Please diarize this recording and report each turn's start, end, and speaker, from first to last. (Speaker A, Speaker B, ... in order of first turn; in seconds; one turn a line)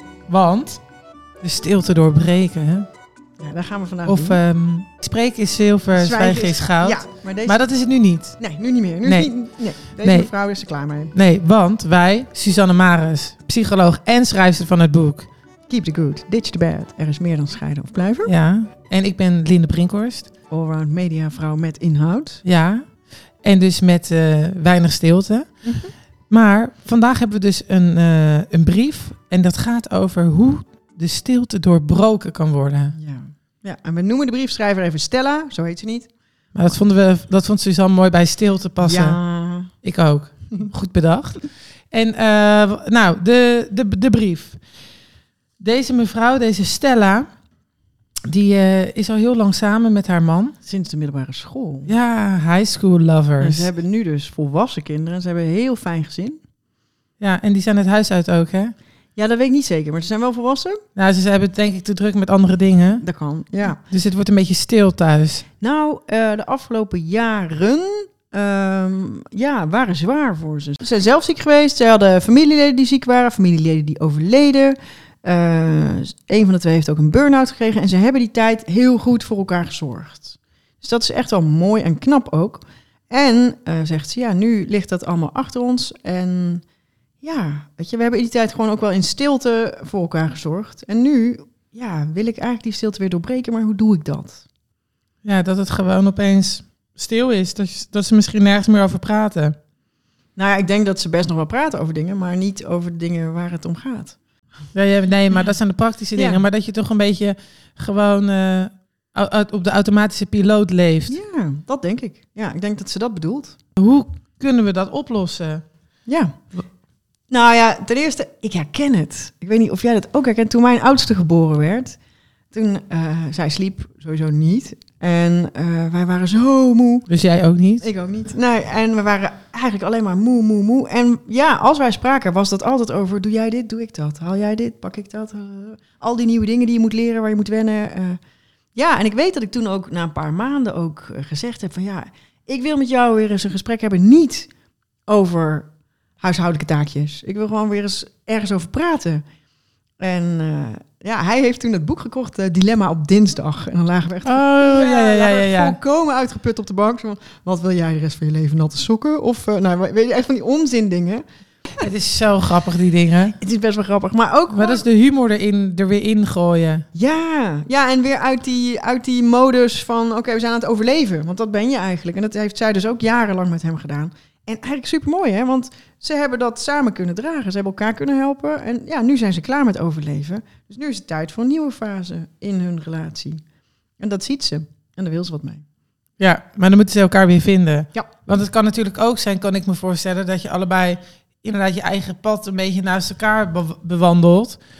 Speaker A: 0.3-0.9
Speaker A: 1.4-2.9
Speaker B: 3.4-4.4
Speaker A: 4.0-8.4
Speaker B: 5.9-7.7
Speaker B: 8.3-11.2
Speaker A: 9.0-10.3
Speaker A: 11.1-15.3
Speaker B: 15.7-18.3
Speaker A: 18.2-20.3
Speaker B: 20.5-22.4
Speaker A: 22.4-25.6
Speaker B: 25.6-25.9
Speaker A: 26.3-33.0
Speaker B: 32.9-36.1
Speaker A: 36.5-39.2
Speaker B: 38.8-39.7
Speaker A: 39.7-44.6
Speaker A: 45.6-47.3
Speaker A: 48.3-50.5
Speaker B: 50.6-51.9
Speaker A: 51.9-53.7
Speaker B: 53.4-56.4
Speaker A: 57.2-58.7
Speaker B: 59.1-60.8
Speaker A: 61.0-63.0
Speaker B: 63.0-63.8
Speaker A: 63.6-65.5
Speaker B: 65.6-86.6
Speaker B: 87.2-94.4
Speaker A: 95.2-99.5
Speaker B: 100.3-104.2
Speaker A: 104.7-111.2
Speaker B: 106.2-106.4
Speaker B: 111.1-113.6
Speaker A: 113.8-115.7
Speaker B: 116.0-116.4
Speaker B: 117.3-122.0
Speaker B: 122.5-127.1
Speaker A: 127.1-127.9
Speaker B: 127.8-138.2
Speaker B: 138.7-144.5
Speaker B: 145.1-149.2
Speaker B: 150.0-161.2
Speaker A: 154.2-155.7
Speaker A: 161.8-163.3
Speaker B: 163.4-164.8
Speaker A: 164.5-166.8
Speaker B: 166.9-183.4
Speaker B: 184.0-185.6
Speaker A: 186.2-194.6